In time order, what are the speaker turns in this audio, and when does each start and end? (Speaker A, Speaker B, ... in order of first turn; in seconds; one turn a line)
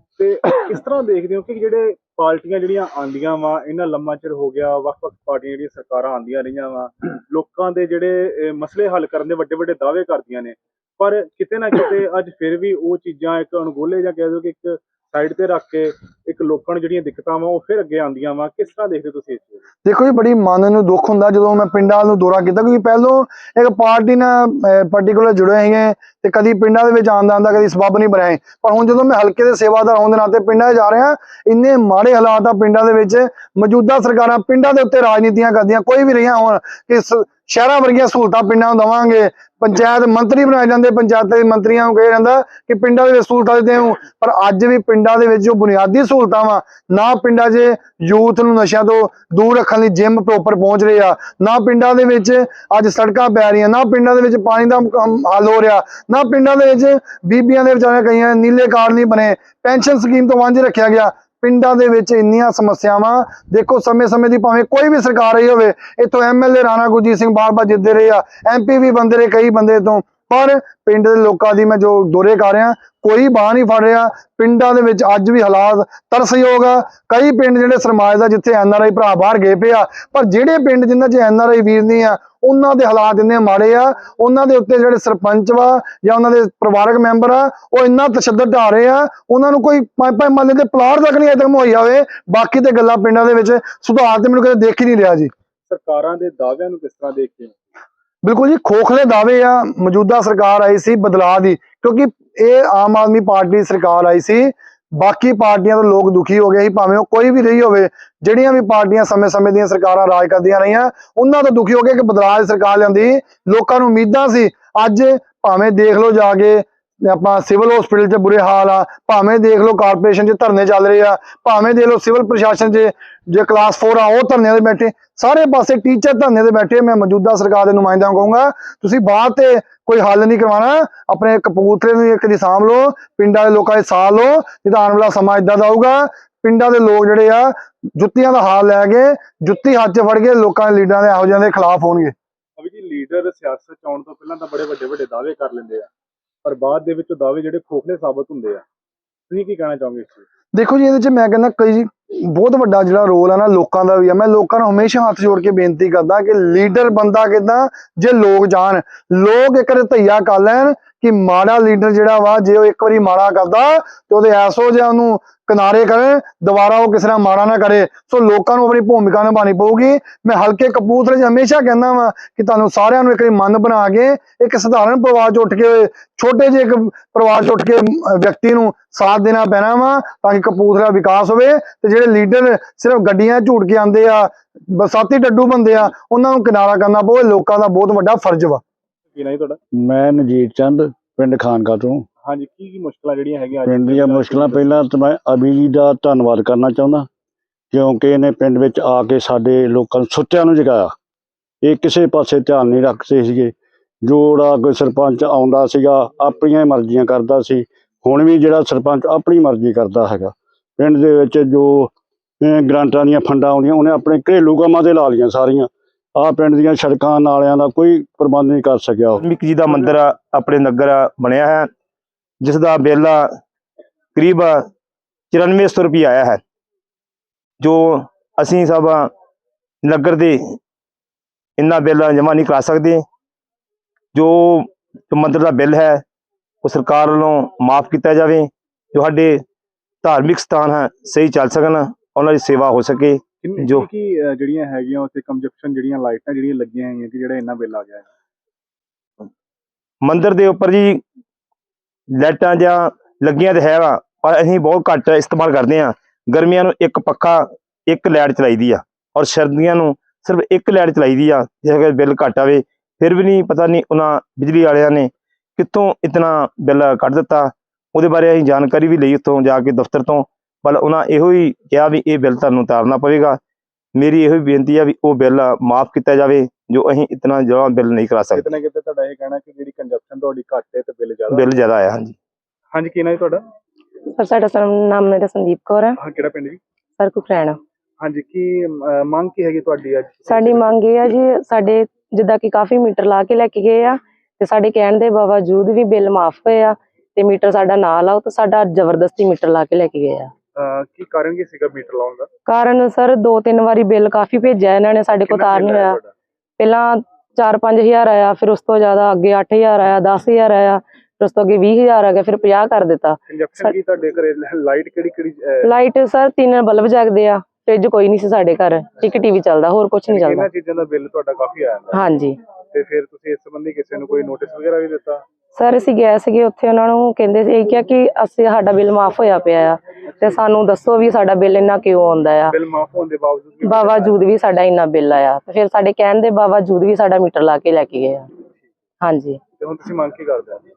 Speaker A: 0.2-19.6
Speaker B: 19.8-95.3
Speaker A: 95.7-97.5
Speaker B: 98.2-142.1
Speaker A: 142.6-145.9
Speaker A: 146.4-148.6
Speaker A: 149.3-150.2
Speaker B: 150.5-188.6
Speaker A: 189.1-189.6
Speaker C: 189.8-192.1
Speaker A: 192.2-194.7
Speaker C: 193.6-197.1
Speaker C: 197.7-200.9
Speaker C: 201.6-219.2
Speaker D: 219.4-221.7
Speaker D: 222.4-223.2
Speaker D: 224.2-224.6
Speaker D: 225.3-226.4
Speaker D: 227.6-229.1
Speaker D: 229.9-230.3
Speaker D: 231.6-233.0
Speaker D: 234.1-236.0
Speaker D: 236.6-239.4
Speaker D: 240.0-243.8
Speaker A: 243.4-248.1
Speaker D: 250.0-251.0
Speaker D: 252.2-273.4
Speaker D: 274.0-278.4
Speaker A: 278.3-281.7
Speaker D: 281.3-282.1
Speaker A: 282.7-283.4
Speaker E: 284.1-286.0
Speaker A: 286.0-286.6
Speaker E: 287.0-287.6
Speaker A: 288.0-290.7
Speaker E: 290.3-300.3
Speaker A: 300.5-302.3
Speaker E: 302.5-306.0
Speaker A: 305.2-306.1
Speaker E: 306.6-313.8
Speaker A: 313.3-315.7
Speaker E: 315.6-320.5
Speaker A: 320.1-322.0
Speaker E: 321.9-322.4
Speaker A: 322.7-325.2
Speaker E: 325.6-332.5
Speaker A: 330.1-330.4
Speaker A: 332.5-334.2
Speaker E: 333.6-338.3
Speaker E: 339.0-339.4
Speaker A: 339.5-340.6